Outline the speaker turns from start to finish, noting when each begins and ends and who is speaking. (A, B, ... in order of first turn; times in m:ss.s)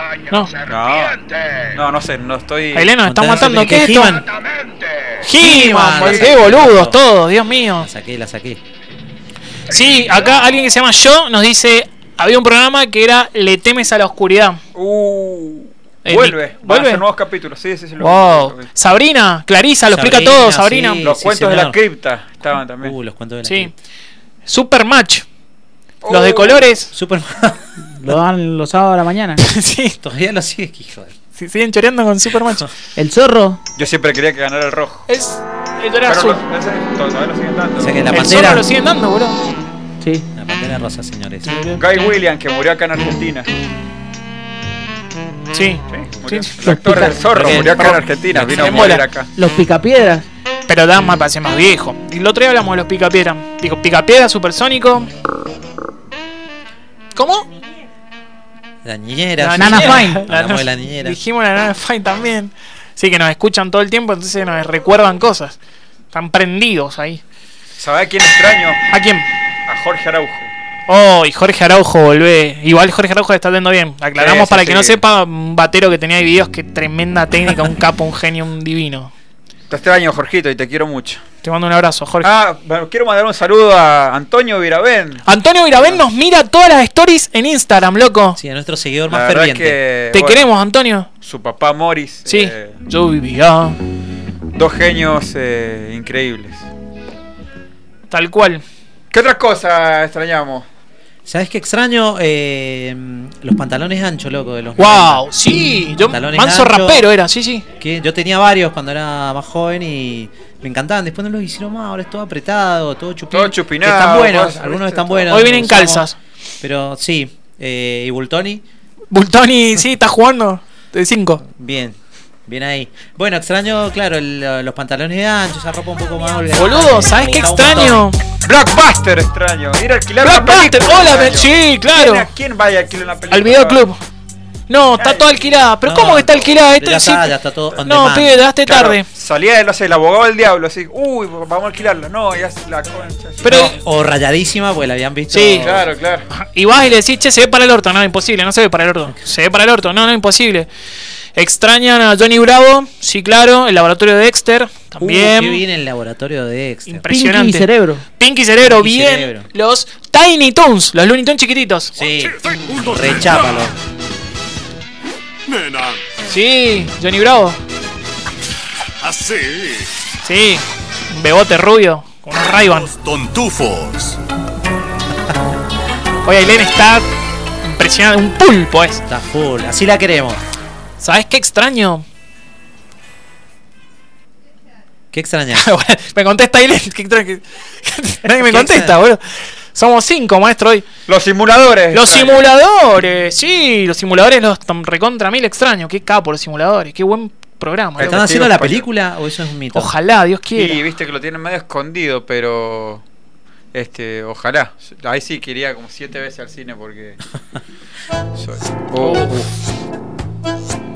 0:00.6-0:02.9 A
0:02.7-0:04.2 B
0:03.0-0:04.3 C
0:05.2-0:07.9 B
0:05.3-0:07.0 C
0:06.0-0:06.3 A
0:07.8-0:08.6 C
0:09.7-0:14.6 B
0:14.7-0:18.7 A
0:16.0-0:17.0 B
0:18.0-0:21.0 B
0:19.9-0:21.8 C
0:21.0-0:23.0 A
0:22.8-0:23.7 C
0:23.4-0:23.7 B
0:24.4-0:25.2 B
0:26.0-0:26.6 A
0:26.1-0:26.9 B
0:26.9-0:27.7 C
0:27.9-0:29.4 D
0:29.4-0:30.0 B
0:30.0-0:31.1 C
0:31.4-0:32.7 B
0:33.0-0:33.6 D
0:33.8-0:35.1 A
0:35.1-0:36.4 B
0:36.0-0:38.0 A
0:37.8-0:38.6 C
0:38.1-0:39.4 B
0:40.0-0:40.2 D
0:40.3-0:41.5 C
0:41.4-0:42.1 B
0:41.8-0:43.5 A
0:45.5-0:46.5 B
0:45.9-0:49.3 A
0:46.6-0:47.2 D
0:47.3-0:48.8 C
0:47.7-0:49.0 B
0:49.4-0:50.2 D
0:50.7-0:55.1 B
0:57.1-0:57.4 B
0:58.8-1:01.2 C
0:59.4-1:05.6 B
0:59.5-1:00.2 D
1:06.1-1:07.2 B
1:07.8-1:08.8 A
1:08.9-1:09.3 B
1:09.7-1:10.5 A
1:10.9-1:19.1 B
1:14.2-1:15.0 A
1:19.7-1:21.2 A
1:21.4-1:22.3 B
1:22.2-1:25.2 A
1:25.2-1:28.4 B
1:28.4-1:29.8 C
1:29.1-1:30.5 A
1:30.1-1:31.1 B
1:31.2-1:32.8 A
1:32.3-1:33.8 B
1:34.5-1:36.7 A
1:38.1-1:38.6 B
1:39.1-1:40.7 A
1:41.2-1:45.3 C
1:44.8-1:47.6 B
1:46.0-1:47.0 C
1:47.8-1:56.1 C
1:53.3-1:55.6 A
1:55.3-1:56.2 B
1:56.6-1:58.6 C
1:59.1-2:01.4 B
2:01.4-2:08.1 C
2:06.5-2:08.2 B
2:08.4-2:13.8 A
2:10.2-2:12.3 B
2:13.3-2:14.0 B
2:14.7-2:17.3 B
2:15.0-2:15.3 A
2:15.8-2:18.4 C
2:17.8-2:19.0 B
2:18.6-2:23.7 A
2:23.4-2:23.7 B
2:23.4-2:25.8 C
2:25.3-2:25.6 B
2:25.6-2:26.2 A
2:26.3-2:30.7 B
2:31.4-2:35.6 B
2:35.0-2:37.0 C
2:36.9-2:41.9 B
2:37.1-2:38.0 D
2:38.7-2:39.5 C
2:41.9-2:43.7 C
2:42.4-2:43.4 E
2:45.5-2:46.0 E
2:46.3-2:47.6 B
2:49.0-2:49.9 E
2:50.2-2:52.9 B
2:52.6-2:54.2 E
2:56.2-2:57.1 B
2:57.6-2:59.0 B
2:59.1-3:00.4 C
3:01.0-3:02.0 B
3:05.1-3:05.7 C
3:05.5-3:09.2 B
3:08.4-3:09.0 C
3:09.7-3:10.8 B
3:11.1-3:12.4 A
3:11.9-3:18.2 B
3:18.0-3:18.9 A
3:18.0-3:19.9 C
3:19.7-3:20.8 B
3:20.6-3:23.0 A
3:23.7-3:27.2 A
3:28.4-3:29.4 A
3:29.0-3:29.3 B